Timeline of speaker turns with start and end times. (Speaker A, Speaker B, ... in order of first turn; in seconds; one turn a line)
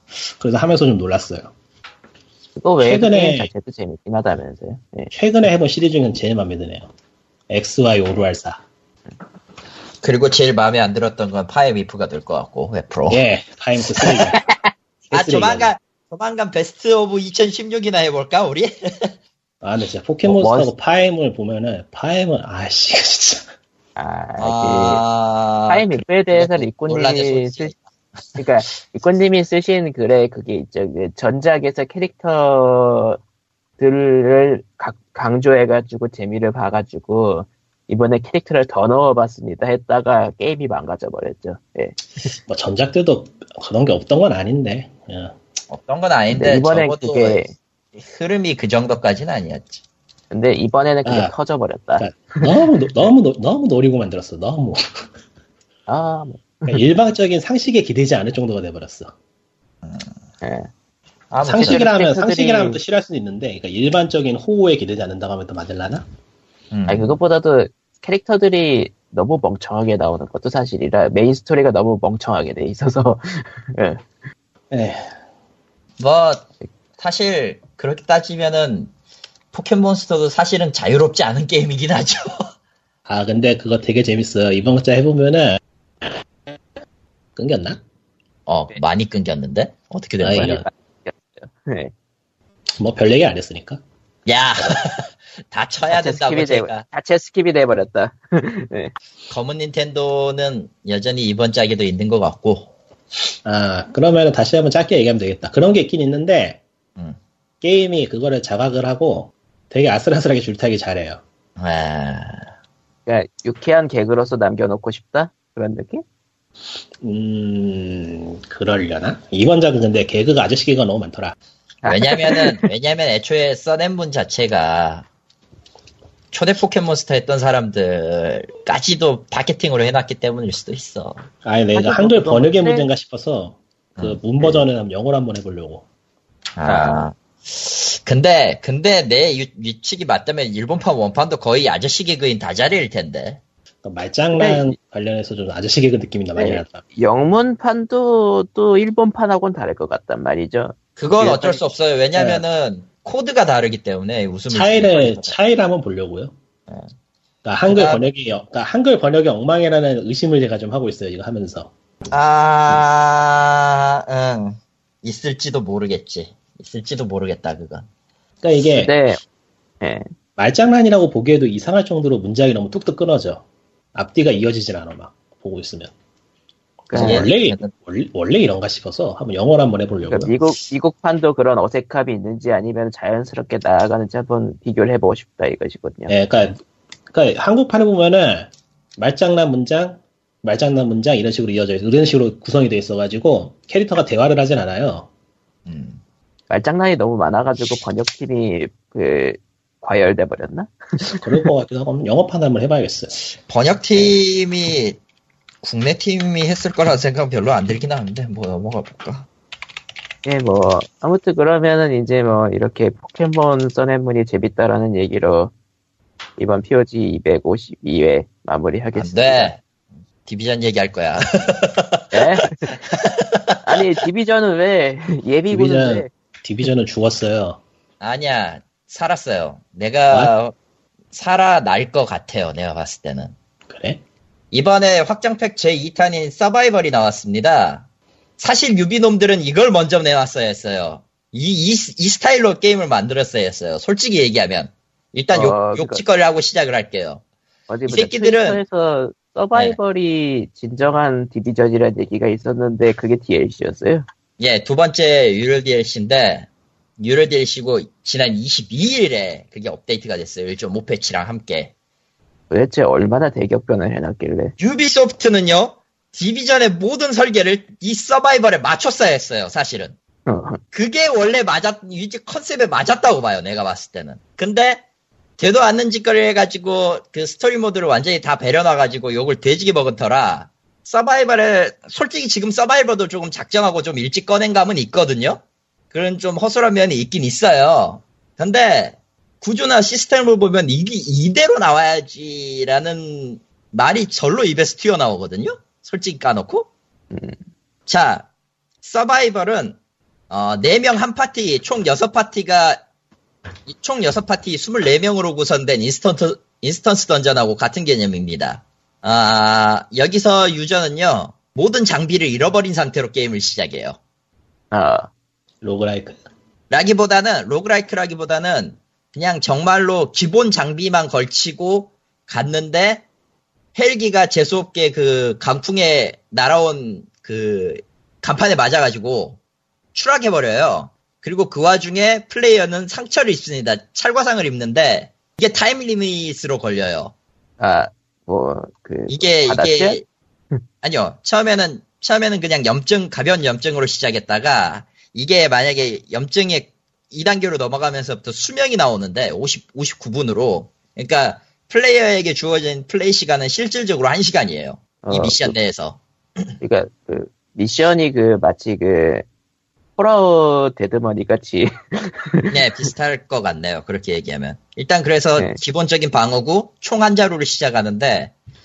Speaker A: 0.3-1.5
Speaker B: 2.5-5.1
Speaker A: 2.8-3.5
Speaker A: 5.1-6.9
Speaker A: 7.5-8.6
Speaker C: 10.0-13.2
Speaker A: 13.1-14.4
Speaker A: 15.1-15.7
Speaker C: 15.1-19.1
Speaker A: 19.6-23.5
Speaker B: 20.2-20.7
Speaker B: 23.9-25.0
Speaker C: 24.4-28.4
Speaker B: 25.7-27.7
Speaker B: 28.4-33.2
Speaker B: 33.8-42.3
Speaker A: 42.5-45.4
Speaker C: 45.7-47.4
Speaker B: 46.3-47.5
Speaker C: 48.0-49.8
Speaker B: 50.3-52.7
Speaker A: 51.0-51.3
Speaker A: 52.0-55.0
Speaker B: 55.9-56.8
Speaker A: 56.7-59.1
Speaker B: 60.4-60.7
Speaker C: 61.3-61.9
Speaker A: 61.4-66.0
Speaker B: 61.5-62.8
Speaker C: 66.7-67.2
Speaker B: 66.9-74.0
Speaker A: 74.7-75.1
Speaker C: 76.0-78.9
Speaker C: 79.5-82.5
Speaker A: 83.0-86.1
Speaker A: 87.3-87.8
Speaker C: 88.5-90.6
Speaker A: 90.2-90.7
Speaker B: 90.4-91.9
Speaker A: 92.8-93.8
Speaker C: 94.2-96.8
Speaker B: 95.9-98.9
Speaker C: 99.3-102.7
Speaker A: 103.4-106.6
Speaker A: 107.6-111.2
Speaker C: 111.6-112.5
Speaker B: 113.0-116.0
Speaker A: 117.0-121.3
Speaker B: 121.8-122.7
Speaker C: 121.8-125.1
Speaker C: 126.3-131.2
Speaker A: 131.4-135.8
Speaker B: 131.7-132.9
Speaker C: 134.0-134.6
Speaker C: 136.6-143.4
Speaker B: 136.7-137.0
Speaker A: 143.8-146.8
Speaker B: 144.3-144.8
Speaker B: 146.4-151.6
Speaker C: 151.0-155.3
Speaker A: 152.1-152.4
Speaker A: 154.5-156.3
Speaker A: 157.4-161.7
Speaker C: 157.7-158.1
Speaker C: 162.1-167.9
Speaker A: 168.4-168.9
Speaker B: 168.7-169.2
Speaker B: 169.8-170.1
Speaker A: 170.4-173.4
Speaker A: 173.9-175.9
Speaker B: 176.9-177.3
Speaker A: 176.9-180.3
Speaker C: 176.9-177.7
Speaker B: 180.0-186.1
Speaker A: 186.1-195.1
Speaker C: 195.7-196.0
Speaker B: 196.5-201.2
Speaker A: 201.1-203.1
Speaker C: 203.3-205.0
Speaker C: 205.6-209.3
Speaker B: 210.2-215.5
Speaker B: 216.4-219.5
Speaker C: 218.9-219.6
Speaker C: 220.2-223.9
Speaker B: 222.1-222.9
Speaker B: 223.6-226.1
Speaker A: 225.5-227.6
Speaker C: 228.0-230.5
Speaker C: 231.1-233.3
Speaker A: 233.7-234.0
Speaker C: 234.5-237.8
Speaker C: 238.4-247.2
Speaker B: 245.3-246.0
Speaker B: 247.7-254.1
Speaker C: 247.9-248.6
Speaker C: 254.4-261.7
Speaker B: 262.5-264.5
Speaker C: 264.6-269.9
Speaker B: 270.2-270.6
Speaker C: 270.7-274.8
Speaker C: 275.4-296.7
Speaker B: 297.1-297.4
Speaker C: 297.9-298.3
Speaker C: 298.8-299.8
Speaker C: 300.3-302.8
Speaker C: 303.7-314.0
Speaker B: 314.7-315.1
Speaker A: 315.6-316.2
Speaker C: 316.7-323.1
Speaker C: 323.7-329.4
Speaker C: 329.9-337.1
Speaker B: 337.6-340.0
Speaker C: 339.1-340.0
Speaker C: 340.8-356.5
Speaker B: 355.0-355.5
Speaker B: 356.6-359.2
Speaker B: 360.0-362.5
Speaker C: 362.5-368.3